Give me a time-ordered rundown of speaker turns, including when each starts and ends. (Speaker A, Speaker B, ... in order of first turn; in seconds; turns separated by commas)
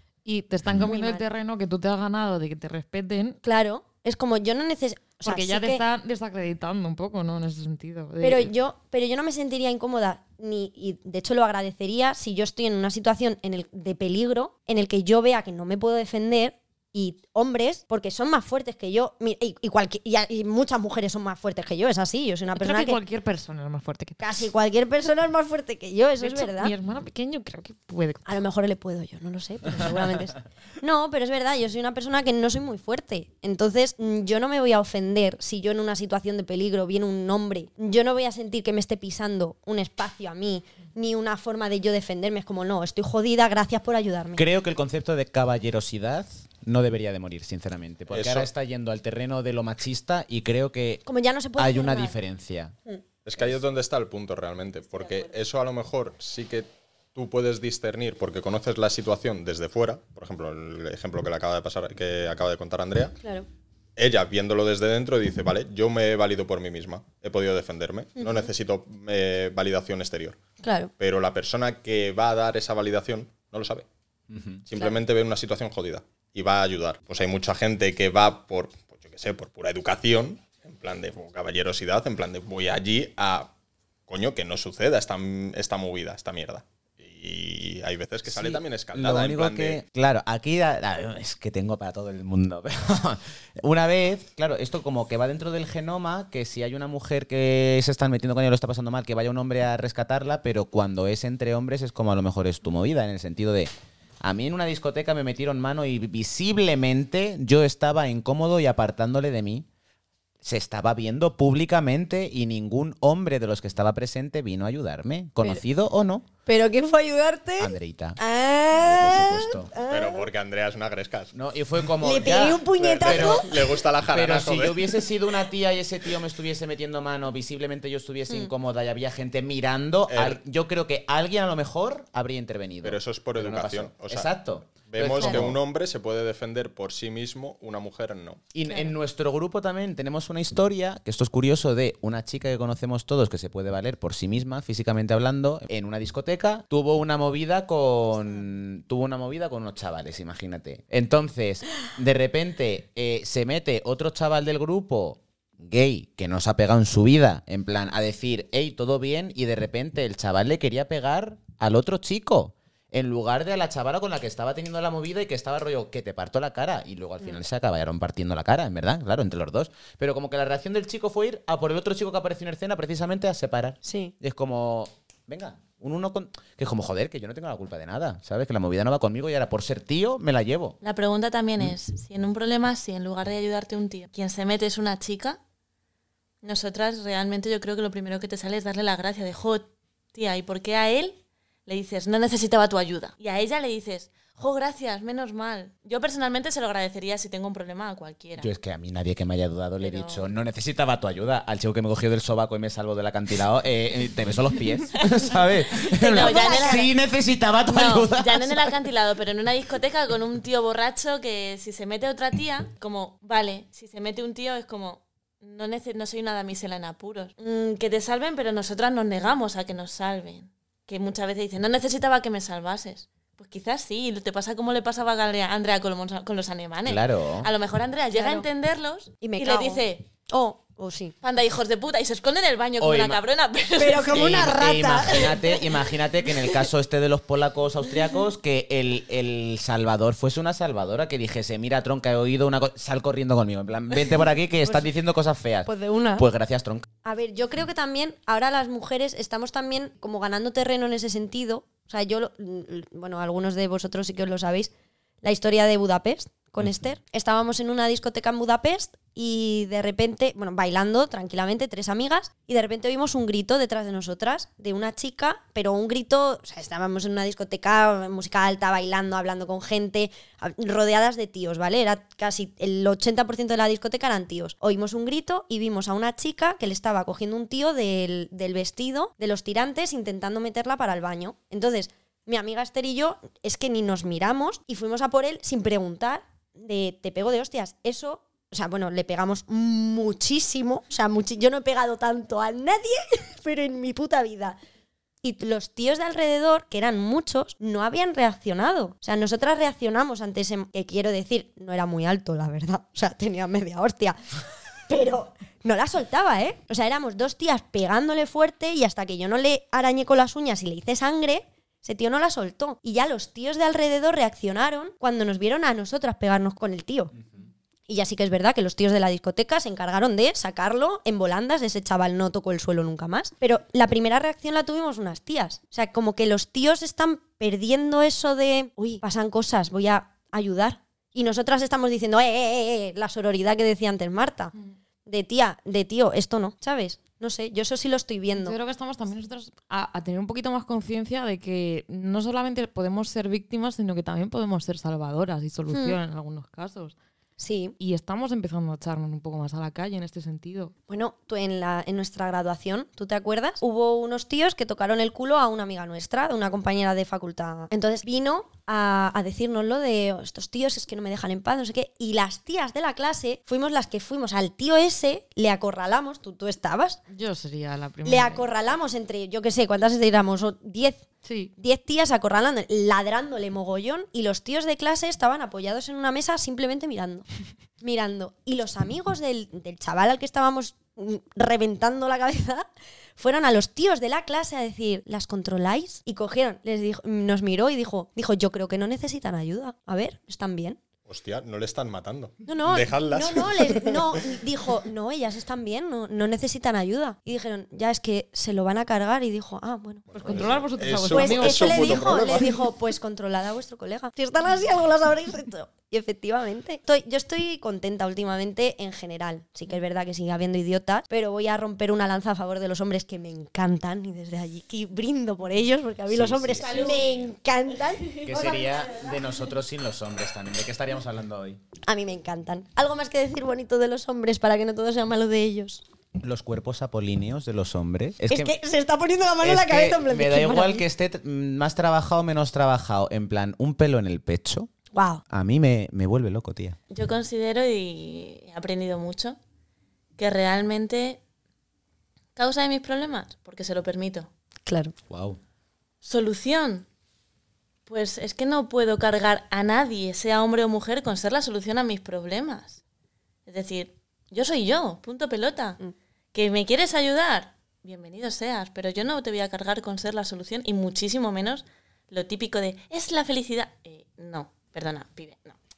Speaker A: 0.2-3.4, Speaker B: 0.7-1.2, Speaker B: 3.4-5.8, Speaker A: 5.2-8.5, Speaker B: 8.2-23.0, Speaker A: 22.6-24.2, Speaker B: 24.2-26.7, Speaker A: 26.2-28.4, Speaker B: 28.3-44.5, Speaker C: 44.4-51.0, Speaker D: 48.1-48.5, Speaker B: 51.1-52.2, Speaker C: 51.6-52.8, Speaker D: 53.2-63.2, Speaker D: 64.0-70.4, Speaker B: 68.2-68.5, Speaker B: 70.6-70.9, Speaker D: 71.0-73.9, Speaker C: 74.3-74.6, Speaker D: 74.7-83.5, Speaker D: 84.1-89.8, Speaker C: 88.2-103.7, Speaker C: 104.2-109.7, Speaker C: 110.4-116.3, Speaker B: 116.5-120.3, Speaker C: 117.6-118.2, Speaker C: 118.7-119.7, Speaker D: 119.9-121.3, Speaker C: 121.3-123.5, Speaker B: 122.0-123.8, Speaker D: 122.8-125.0, Speaker C: 124.0-135.6, Speaker D: 130.1-130.4, Speaker D: 132.8-138.5, Speaker B: 135.2-135.5, Speaker C: 138.5-180.8, Speaker E: 138.7-138.9, Speaker B: 173.8-174.2, Speaker E: 180.8-185.4, Speaker E: 186.4-198.5, Speaker C: 198.4-208.7, Speaker E: 199.8-200.3, Speaker E: 205.1-206.9, Speaker B: 206.0-206.9, Speaker E: 207.7-230.1, Speaker C: 226.8-227.5, Speaker B: 228.1-228.5, Speaker B: 229.2-231.2, Speaker E: 231.2-234.6, Speaker C: 232.8-233.2, Speaker B: 233.8-235.4, Speaker C: 234.1-246.9, Speaker E: 235.2-235.8, Speaker B: 245.7-246.3, Speaker B: 247.0-254.7, Speaker B: 255.2-294.6, Speaker B: 295.2-304.2, Speaker B: 304.9-317.1, Speaker B: 317.9-334.5, Speaker B: 335.1-338.6, Speaker A: 338.4-347.0, Speaker B: 345.7-346.0, Speaker B: 347.4-347.8, Speaker A: 347.8-350.7, Speaker B: 350.9-367.0, Speaker A: 367.1-368.5, Speaker B: 368.1-371.1, Speaker A: 371.2-371.5, Speaker B: 371.6-377.3, Speaker B: 377.8-382.7, Speaker B: 383.2-390.8, Speaker D: 391.1-394.4, Speaker B: 392.5-400.5, Speaker D: 400.1-402.7, Speaker A: 400.2-402.2, Speaker B: 401.1-418.9, Speaker C: 416.1-417.3, Speaker E: 416.6-417.3, Speaker C: 418.2-421.6, Speaker B: 421.9-425.8, Speaker C: 426.2-428.5, Speaker B: 428.3-430.8, Speaker C: 429.4-434.7, Speaker B: 434.9-435.2, Speaker C: 435.3-436.8, Speaker E: 436.9-439.4, Speaker E: 440.2-441.2, Speaker E: 442.4-444.3, Speaker B: 444.7-444.9, Speaker C: 445.1-445.4, Speaker E: 446.0-446.9, Speaker E: 447.9-452.8, Speaker E: 453.5-455.8, Speaker E: 456.3-465.6